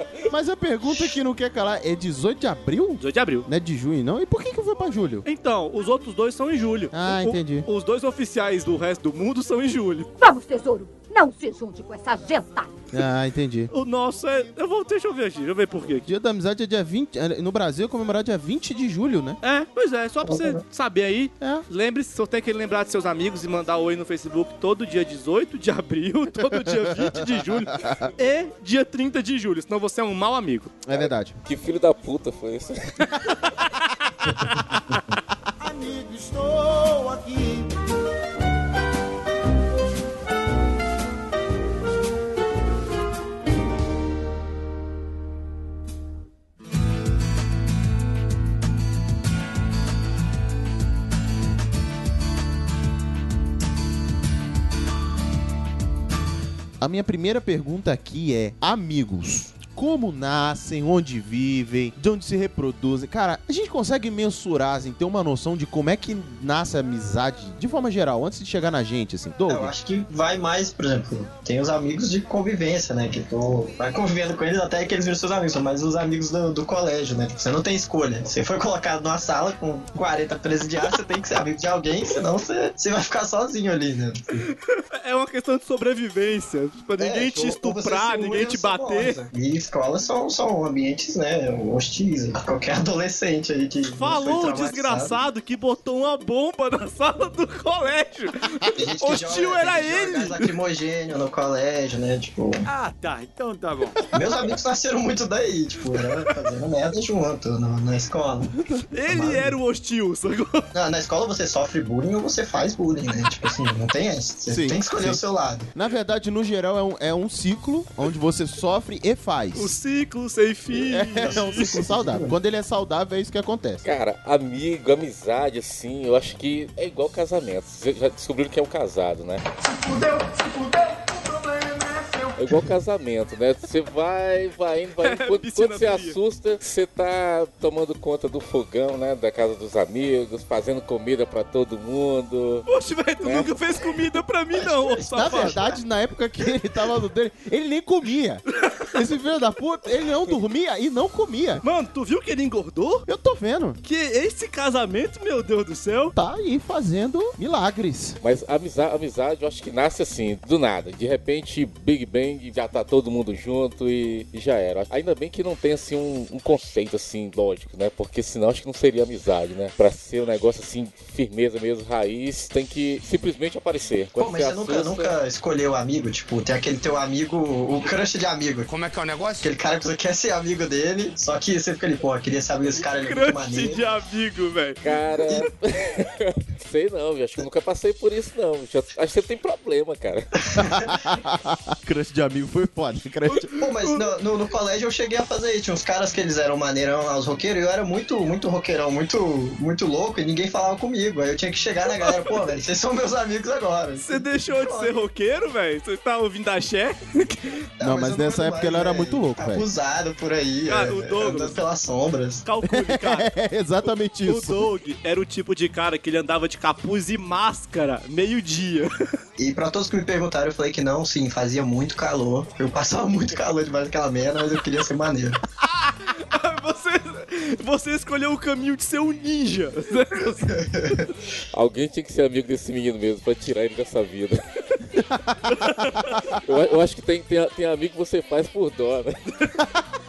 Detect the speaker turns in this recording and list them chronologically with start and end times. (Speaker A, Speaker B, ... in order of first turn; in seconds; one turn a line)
Speaker A: 0.3-5.2
Speaker B: 3.0-3.5
Speaker B: 5.2-10.1
Speaker A: 6.9-7.7
Speaker C: 10.2-12.7
Speaker A: 12.9-13.7
Speaker B: 13.7-16.1
Speaker A: 16.1-19.4
Speaker B: 19.4-30.8
Speaker D: 20.2-20.6
Speaker A: 26.5-28.1
Speaker A: 30.9-31.4
Speaker E: 31.4-33.1
Speaker B: 33.2-34.9
Speaker A: 35.6-37.7
Speaker A: 56.8-69.7
Speaker D: 69.5-84.5
Speaker B: 84.9-89.2
Speaker D: 87.0-95.2
Speaker B: 93.9-100.5
Speaker D: 98.7-102.7
Speaker D: 104.1-109.5
Speaker B: 108.9-110.7
Speaker D: 110.7-115.7
Speaker A: 114.5-115.2
Speaker A: 115.7-119.7
Speaker B: 119.5-121.7
Speaker A: 120.7-123.9
Speaker D: 121.2-122.3
Speaker E: 123.8-129.4
Speaker F: 129.6-132.7
Speaker E: 132.4-142.7
Speaker B: 135.0-136.2
Speaker B: 142.7-145.6
Speaker E: 143.2-143.5
Speaker D: 144.5-145.7
Speaker A: 145.1-148.4
Speaker B: 148.6-148.9
Speaker A: 148.9-151.6
Speaker B: 151.6-153.1
Speaker A: 153.1-153.8
Speaker B: 153.8-156.1
Speaker A: 156.1-158.2
Speaker E: 158.2-175.2
Speaker D: 174.2-178.7
Speaker F: 178.7-179.4
Speaker D: 179.4-183.9
Speaker B: 182.8-184.8
Speaker E: 184.8-190.3
Speaker D: 190.5-190.9
Speaker A: 190.6-193.5
Speaker B: 193.3-194.0
Speaker D: 193.6-204.9
Speaker B: 201.9-202.3
Speaker B: 204.0-207.6
Speaker D: 207.8-212.4
Speaker A: 207.8-209.7
Speaker B: 210.7-211.6
Speaker B: 212.4-213.3
Speaker A: 212.6-214.7
Speaker B: 214.2-218.9
Speaker D: 219.4-225.4
Speaker B: 225.7-230.6
Speaker D: 230.5-231.1
Speaker E: 231.5-234.4
Speaker A: 235.0-236.2
Speaker B: 235.5-236.2
Speaker E: 236.3-239.2